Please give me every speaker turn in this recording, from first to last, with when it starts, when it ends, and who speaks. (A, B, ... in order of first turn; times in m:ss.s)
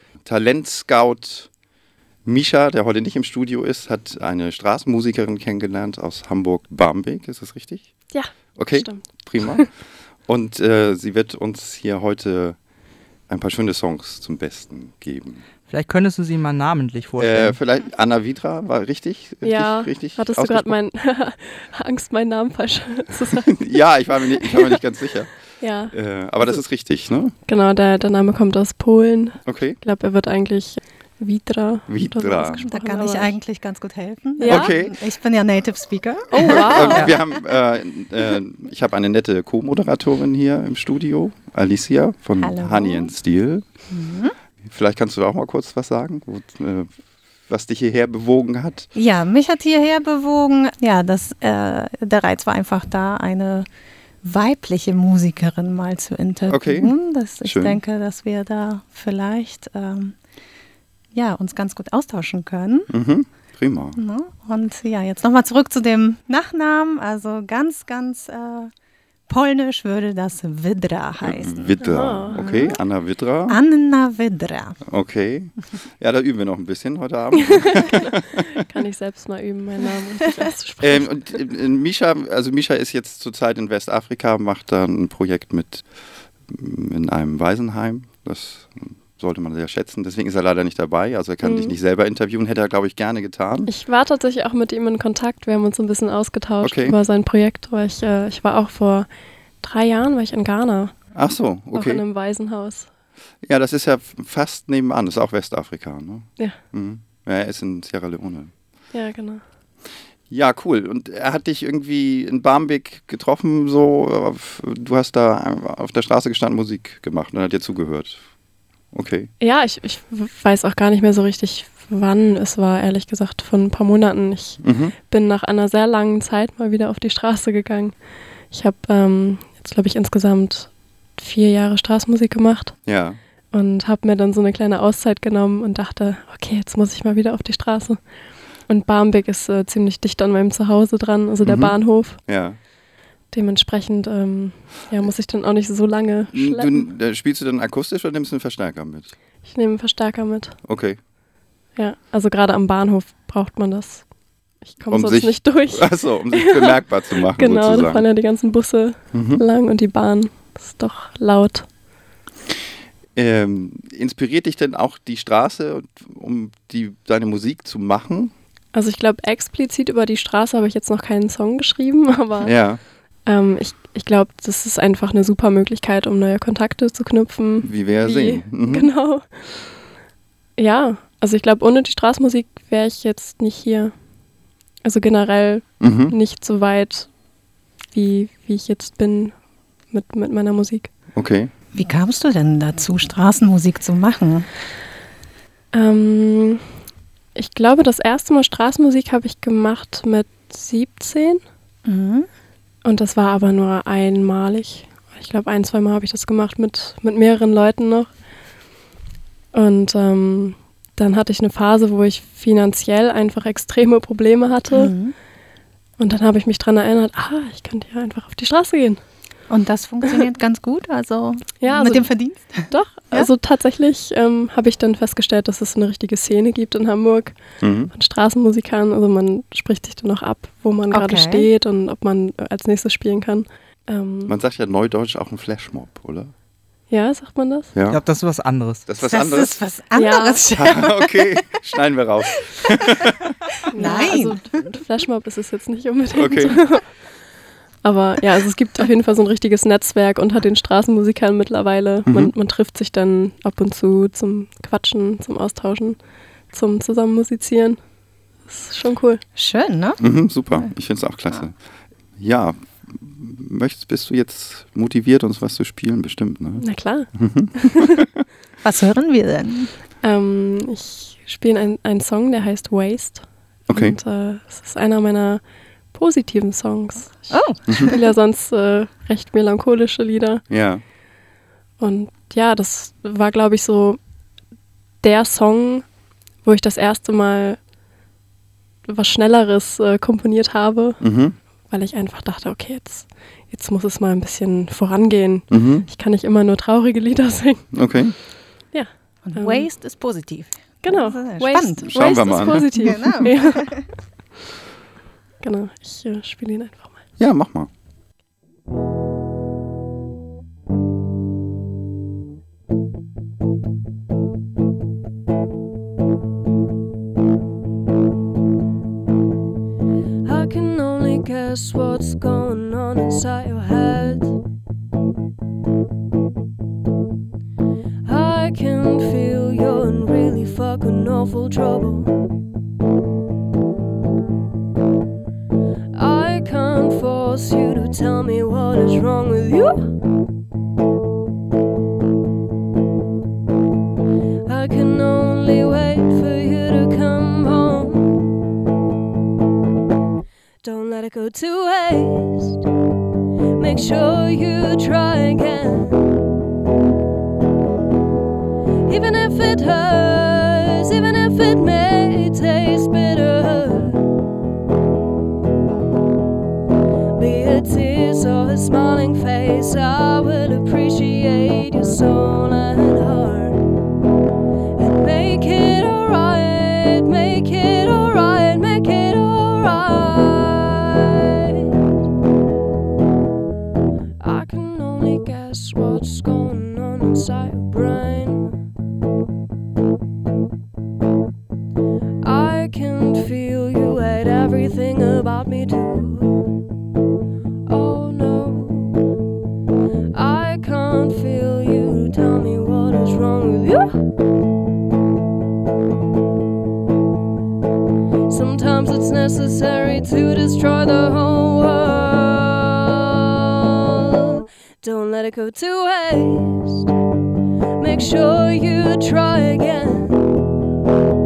0:00.2-0:01.5 A
0:02.2-0:07.9 A
0:08.1-0:09.6 B
0:08.5-0:12.6 A
0:13.3-0:15.4 A
0:15.7-0:17.6 C
0:17.2-0:20.8 A
0:19.4-0:23.7 B
0:23.5-0:25.4 A
0:24.4-0:24.8 B
0:25.6-0:26.6 B
0:25.9-0:27.3 A
0:27.5-0:33.3 B
0:29.4-0:29.8 A
0:31.9-0:32.6 A
0:32.7-0:37.1 D
0:34.4-0:34.7 B
0:34.4-0:35.0 A
0:36.3-0:43.7 A
0:36.4-0:37.1 B
0:42.4-0:43.1 D
0:43.9-0:44.3 D
0:44.6-0:48.9 A
0:48.9-0:53.7 D
0:54.2-1:00.2 D
0:56.5-0:57.8 A
1:01.1-1:02.9 D
1:02.9-1:04.0 A
1:04.0-1:08.7 D
1:09.3-1:12.8 D
1:11.2-1:13.6 A
1:11.8-1:12.4 B
1:13.5-1:14.8 D
1:14.9-1:18.4 A
1:17.5-1:21.2 B
1:20.8-1:33.7 A
1:31.4-1:31.7 B
1:33.7-1:39.1 B
1:36.6-1:36.9 A
1:39.6-1:41.0 B
1:41.1-1:42.0 A
1:41.7-1:42.9 B
1:43.4-1:48.5 A
1:48.9-1:49.4 B
1:50.3-1:58.2 A
1:58.9-1:59.3 A
1:59.4-2:08.0 B
2:04.6-2:04.9 A
2:08.5-2:12.8 B
2:12.8-2:13.2 A
2:13.5-2:18.1 B
2:18.7-2:22.2 B
2:21.4-2:22.6 A
2:23.3-2:26.8 B
2:26.3-2:29.2 A
2:29.4-2:30.6 B
2:30.6-2:31.0 A
2:31.8-2:34.1 B
2:34.6-2:41.7 B
2:34.9-2:38.1 A
2:39.1-2:39.4 A
2:43.2-2:48.3 A
2:48.7-2:52.5 B
2:52.4-2:52.8 A
2:53.2-2:59.8 B
2:57.6-2:58.9 A
3:00.6-3:03.9 B
3:04.8-3:07.2 B
3:05.8-3:06.1 A
3:07.9-3:09.4 B
3:09.9-3:10.9 B
3:11.2-3:11.5 A
3:11.7-3:14.5 D
3:15.7-3:16.6 B
3:17.3-3:21.4 B
3:21.8-3:22.3 D
3:22.8-3:28.1 B
3:29.5-3:34.9 B
3:34.7-3:35.1 D
3:36.0-3:39.0 B
3:39.5-3:43.3 D
3:41.6-3:54.3 B
3:47.6-3:47.9 A
3:50.9-3:51.5 D
3:54.3-3:56.3 A
3:56.9-3:57.7 B
3:57.8-3:58.0 A
3:57.9-3:58.8 C
3:58.8-3:59.6 A
3:59.0-4:01.4 D
3:59.9-4:00.4 B
4:00.5-4:03.1 A
4:03.7-4:04.6 D
4:03.7-4:06.9 B
4:06.2-4:06.6 A
4:07.8-4:17.8 B
4:12.1-4:12.3 A
4:18.5-4:19.2 B
4:19.3-4:20.0 D
4:20.0-4:21.6 A
4:22.2-4:28.1 A
4:26.6-4:27.7 B
4:28.6-4:29.7 D
4:30.0-4:37.4 B
4:33.7-4:34.0 A
4:37.3-4:38.1 D
4:37.9-4:40.4 B
4:40.5-4:40.8 A
4:41.8-4:44.0 B
4:45.0-4:45.9 B
4:46.4-4:47.6 B
4:48.8-4:51.0 B
4:51.0-4:51.4 A
4:51.7-4:57.8 B
4:55.5-4:55.8 A
4:57.7-4:58.1 A
4:58.7-4:59.7 B
4:59.2-5:03.8 D
5:00.8-5:04.0 B
5:01.8-5:03.1 A
5:05.4-5:07.0 B
5:07.2-5:07.7 A
5:20.2-5:24.4 E
5:28.0-5:32.2 E
5:35.9-5:39.9 E
5:44.4-5:48.3 E
5:50.6-5:52.6 E
5:53.6-5:56.0 E
5:58.9-6:04.0 E
6:07.1-6:13.6 E
6:14.8-6:21.8 E
6:24.2-6:28.6 E
6:32.2-6:36.4 E
6:37.6-6:39.1 E
6:40.1-6:44.0 E
6:48.3-6:56.9 E
6:57.8-7:00.2 E